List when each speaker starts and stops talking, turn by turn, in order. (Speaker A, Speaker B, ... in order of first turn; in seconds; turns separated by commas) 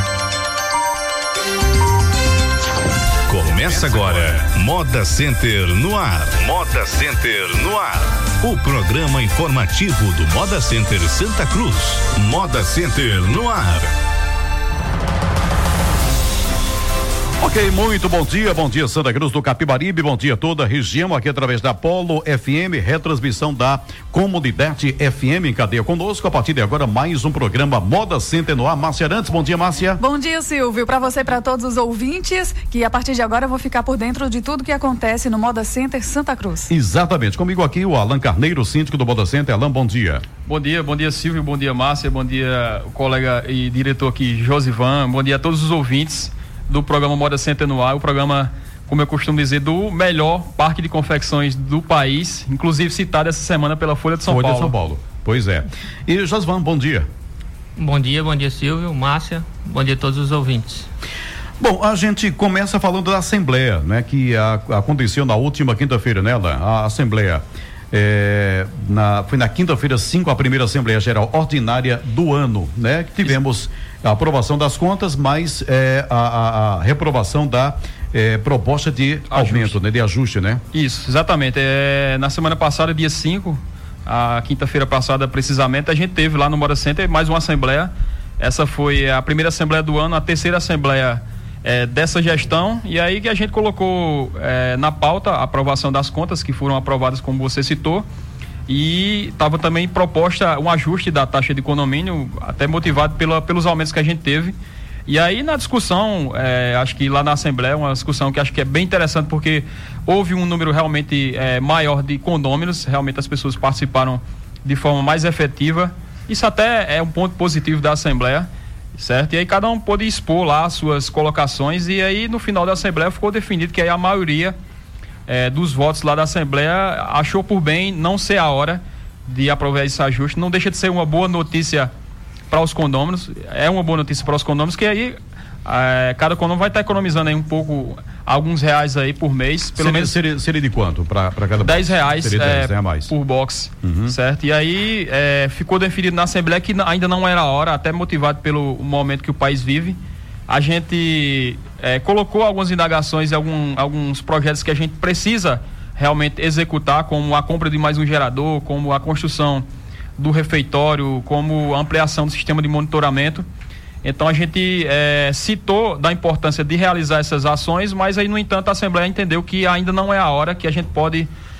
Speaker A: 3.3-13.9, Speaker B: 17.4-30.0, Speaker C: 30.0-36.7, Speaker B: 36.7-40.2, Speaker D: 40.5-54.7, Speaker B: 54.2-57.1, Speaker E: 57.8-60.9, Speaker B: 61.6-80.6, Speaker D: 79.3-79.8, Speaker D: 80.7-98.0, Speaker D: 98.7-104.5, Speaker D: 105.1-124.5, Speaker D: 125.3-131.9, Speaker D: 132.5-140.2, Speaker B: 139.8-143.1, Speaker D: 141.6-159.6, Speaker B: 143.8-144.2, Speaker D: 160.2-163.4, Speaker D: 164.0-171.3